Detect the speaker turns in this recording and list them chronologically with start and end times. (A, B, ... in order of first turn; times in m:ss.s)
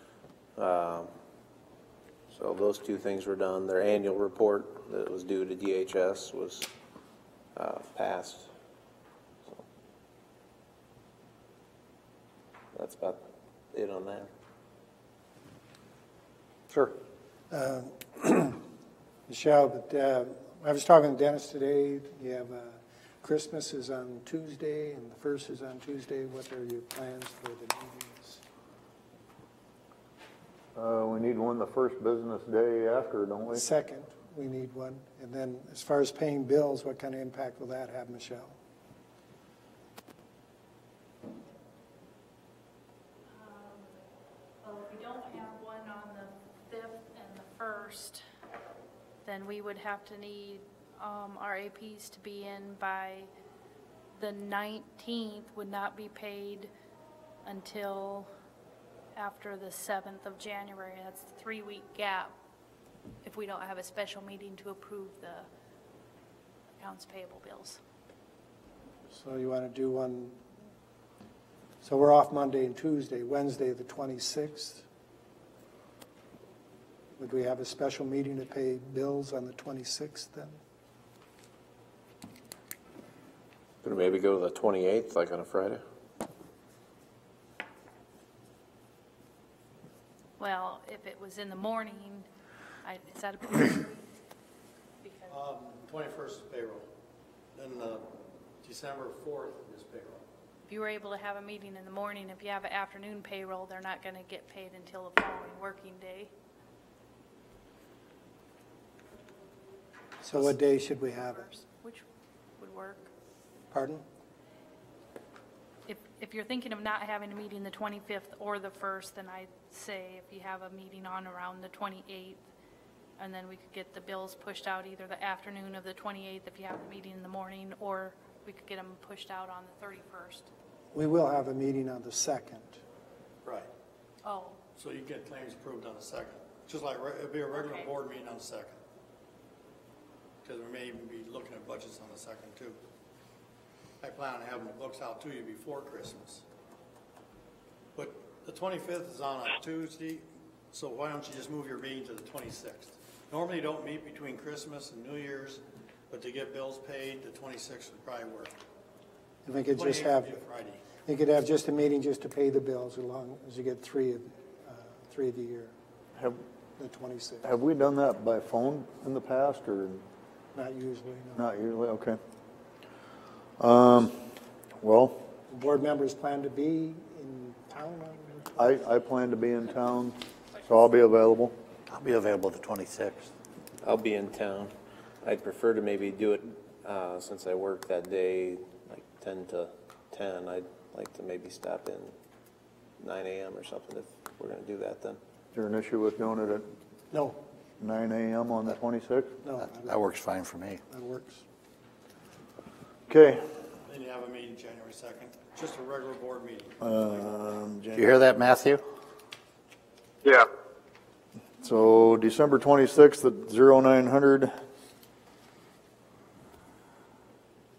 0:00.6-0:01.1 A
0:02.3-0:06.7 A
0:07.5-0:08.5 A
0:12.7-0:13.2 A
0:13.7-0:14.3 A
0:17.5-0:18.6 B
0:19.3-0:28.4 B
0:30.7-0:33.6 C
0:33.5-0:38.5 B
0:43.3-0:43.9 D
0:44.6-0:48.2 D
0:49.2-0:53.3 D
0:54.1-0:56.7 D
0:57.4-0:58.3 D
0:59.1-1:02.3 D
1:03.2-1:05.5 D
1:06.8-1:07.8 D
1:09.1-1:10.4 B
1:11.8-1:14.8 B
1:17.2-1:20.6 B
1:23.8-1:25.8 A
1:30.4-1:32.3 D
1:32.8-1:34.0 D
1:35.0-1:35.3 D
1:35.3-1:36.8 E
1:37.5-1:38.0 E
1:38.6-1:40.2 E
1:40.7-1:46.3 D
1:50.2-1:51.5 B
1:50.4-1:52.0 D
1:52.6-1:53.1 D
1:53.7-1:54.0 B
1:55.9-2:02.4 D
2:03.2-2:10.5 D
2:10.9-2:12.8 B
2:14.2-2:14.6 D
2:14.8-2:18.8 E
2:17.5-2:17.9 D
2:20.4-2:22.8 E
2:24.0-2:26.4 E
2:28.0-2:38.5 E
2:39.4-2:40.4 B
2:39.7-2:40.8 E
2:41.0-2:45.7 B
2:46.2-2:46.4 C
2:46.8-2:47.5 B
2:47.4-2:50.0 C
2:50.5-2:51.5 B
2:51.4-2:52.2 C
2:53.6-2:54.2 C
2:54.8-2:55.2 C
2:55.5-2:58.6 B
2:58.6-3:01.6 C
3:01.9-3:03.3 F
3:03.8-3:12.1 A
3:13.0-3:15.2 A
3:15.5-3:16.7 C
3:17.1-3:17.4 B
3:17.8-3:19.3 C
3:19.4-3:20.1 B
3:19.8-3:20.8 F
3:20.9-3:21.4 B
3:23.1-3:23.4 C
3:23.8-3:26.8 E
3:26.8-3:28.1 C
3:27.9-3:28.8 F
3:31.6-3:34.5 C